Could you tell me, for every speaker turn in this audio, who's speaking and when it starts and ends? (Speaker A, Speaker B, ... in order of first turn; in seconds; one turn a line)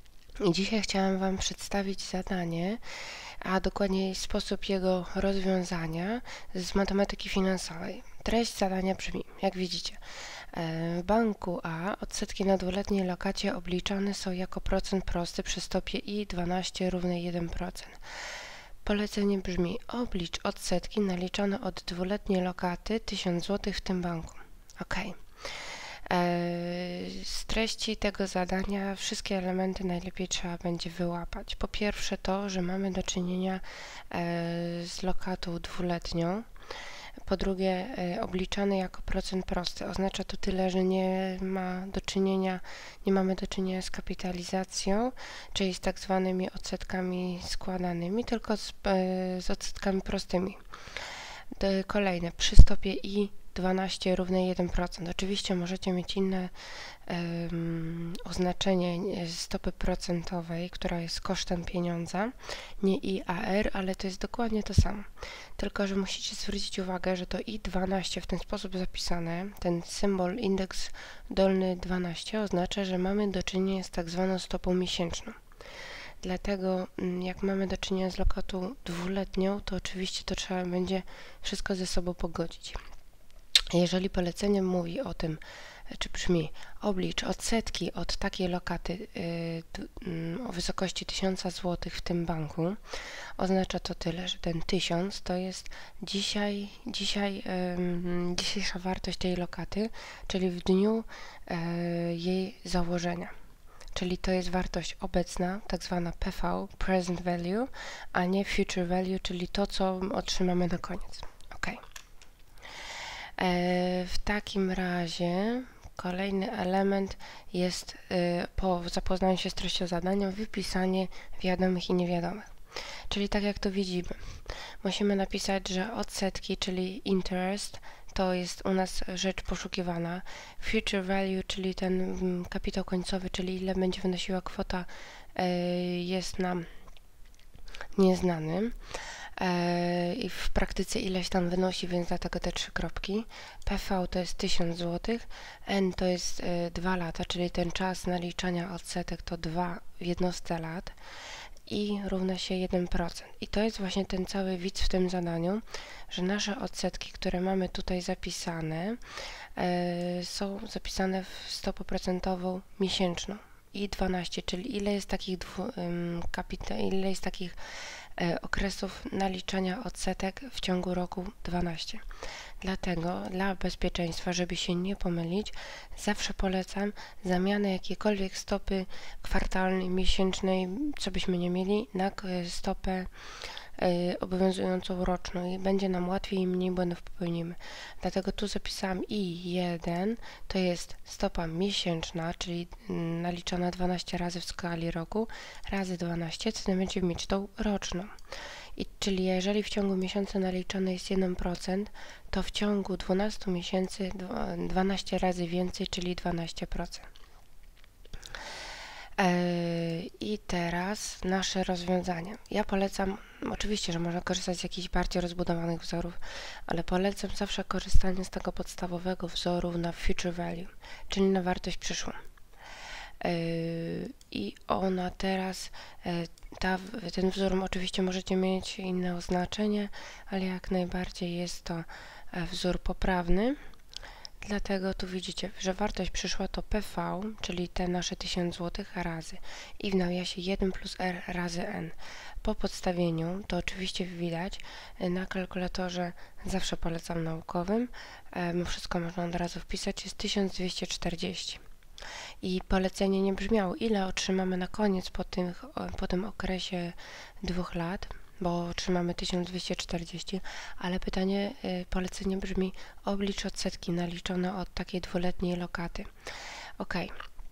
Speaker A: 0.4-2.8
Speaker A: 3.4-10.0
Speaker A: 10.5-18.0
Speaker A: 18.9-25.2
Speaker A: 26.1-36.5
Speaker A: 37.2-50.6
Speaker A: 51.5-56.5
Speaker A: 57.1-75.4
Speaker A: 76.2-82.8
Speaker A: 83.7-92.8
Speaker A: 93.4-103.3
Speaker A: 104.0-111.8
Speaker A: 113.4-122.5
Speaker A: 123.1-136.7
Speaker A: 137.9-138.8
Speaker A: 139.4-151.0
Speaker A: 151.7-159.0
Speaker A: 159.6-167.6
Speaker A: 168.2-172.0
Speaker A: 172.6-183.1
Speaker A: 183.8-198.1
Speaker A: 198.8-207.1
Speaker A: 209.2-222.2
Speaker A: 223.2-233.6
Speaker A: 234.4-251.6
Speaker A: 252.4-266.1
Speaker A: 266.8-267.1